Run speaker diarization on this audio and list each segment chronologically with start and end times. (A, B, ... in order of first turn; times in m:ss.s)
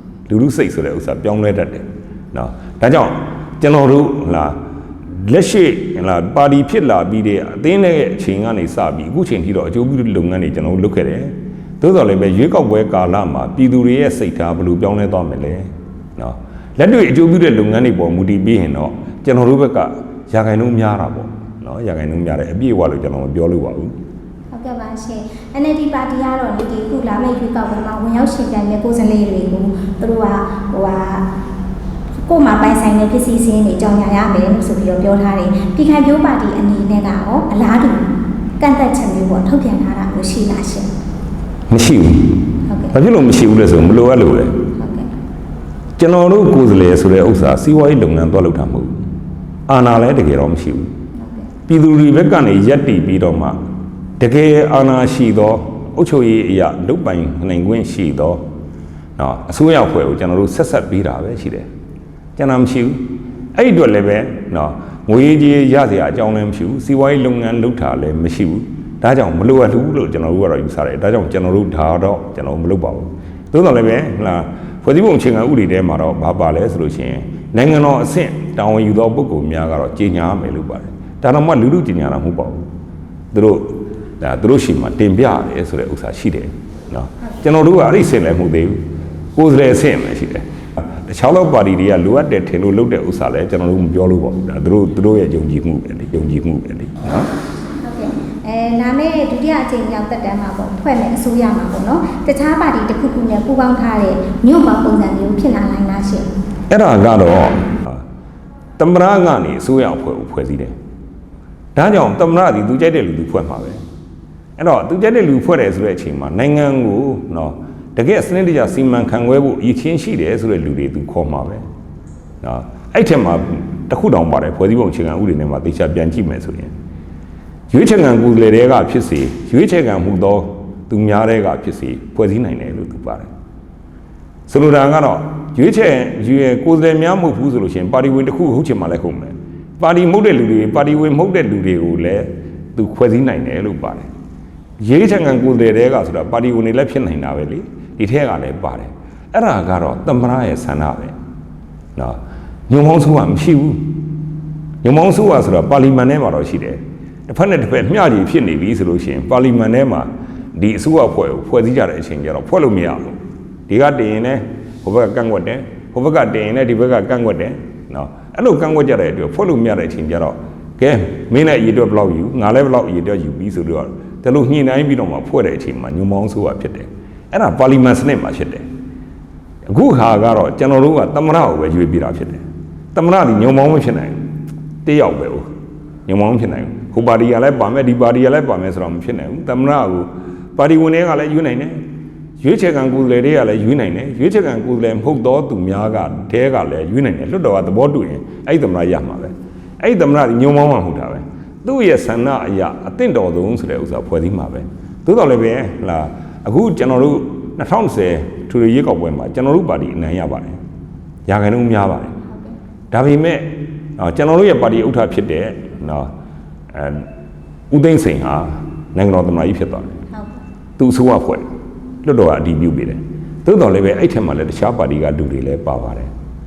0:00.3-0:23.9 A
0:24.5-0:31.3 B
0:32.2-0:40.9 B
0:41.7-0:44.6 A
0:42.7-0:43.0 B
0:44.8-0:45.1 B
0:46.0-0:49.0 A
0:49.7-0:50.9 A
0:51.2-0:51.5 B
0:51.7-0:53.6 A
0:54.2-0:58.4 A
0:59.2-1:01.7 A
1:02.4-1:03.0 A
1:03.5-1:22.6 A
1:23.3-1:28.8 A
1:29.4-1:37.3 A
1:37.8-1:46.3 B
1:46.7-1:48.0 A
1:48.8-1:50.8 A
1:51.8-1:53.8 A
1:54.6-2:01.6 A
2:02.4-2:06.7 A
2:07.7-2:13.3 A
2:14.5-2:24.1 A
2:24.8-2:31.1 A
2:32.0-2:34.0 A
2:34.8-2:43.2 A
2:43.7-2:58.6 A
2:59.7-3:04.2 A
3:04.8-3:05.5 A
3:06.1-3:11.8 A
3:12.4-3:30.6 A
3:31.2-3:32.1 A
3:32.3-3:32.5 B
3:32.9-3:36.1 A
3:36.7-3:37.1 A
3:37.7-3:40.0 A
3:40.1-3:40.4 B
3:40.8-3:41.4 A
3:42.0-3:46.1 A